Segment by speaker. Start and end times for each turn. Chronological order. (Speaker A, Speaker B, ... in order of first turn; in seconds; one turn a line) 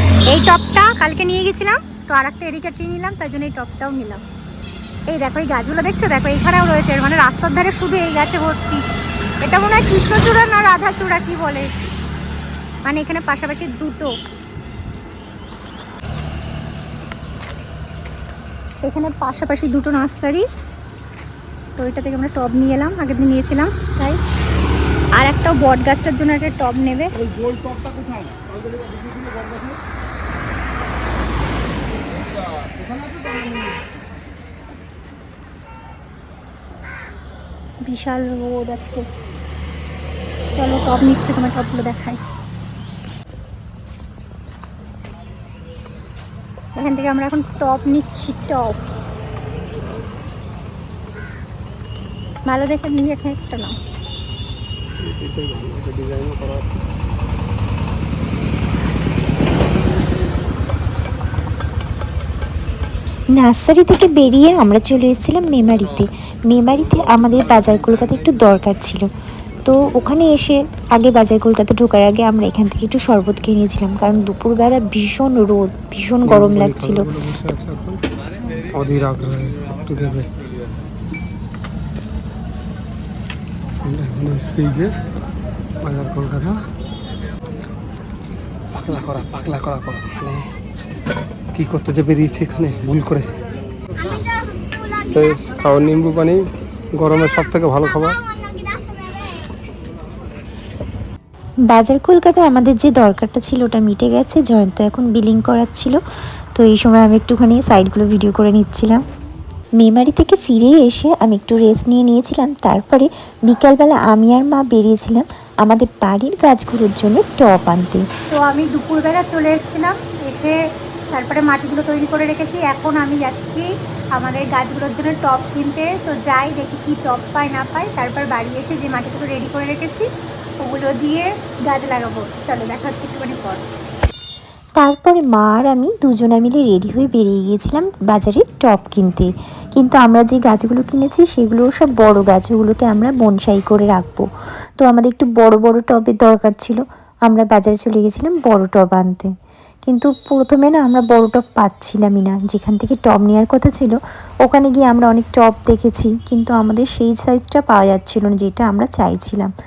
Speaker A: 0.3-4.2
Speaker A: 5.1-8.8
Speaker A: 9.4-11.7
Speaker A: 12.9-14.1
Speaker A: 18.8-20.4
Speaker A: 21.8-24.2
Speaker A: 25.1-27.1
Speaker B: 27.1-29.8
Speaker B: 32.1-33.8
Speaker A: 37.9-39.1
Speaker A: 40.5-42.4
Speaker A: 46.8-48.9
Speaker A: 52.5-53.8
Speaker B: 55.0-56.9
Speaker C: 63.3-69.1
Speaker C: 69.7-77.0
Speaker B: 76.2-78.0
Speaker B: 78.7-80.3
Speaker B: 83.8-84.9
Speaker B: 85.8-86.6
Speaker B: 88.7-90.5
Speaker B: 91.5-93.3
Speaker B: 95.1-96.4
Speaker B: 97.0-98.2
Speaker A: 98.4-99.1
Speaker C: 101.7-106.0
Speaker C: 106.6-109.0
Speaker C: 109.8-118.1
Speaker A: 118.3-120.6
Speaker A: 121.1-130.1
Speaker A: 130.6-133.6
Speaker C: 134.8-144.3
Speaker C: 144.8-149.3
Speaker C: 149.9-159.5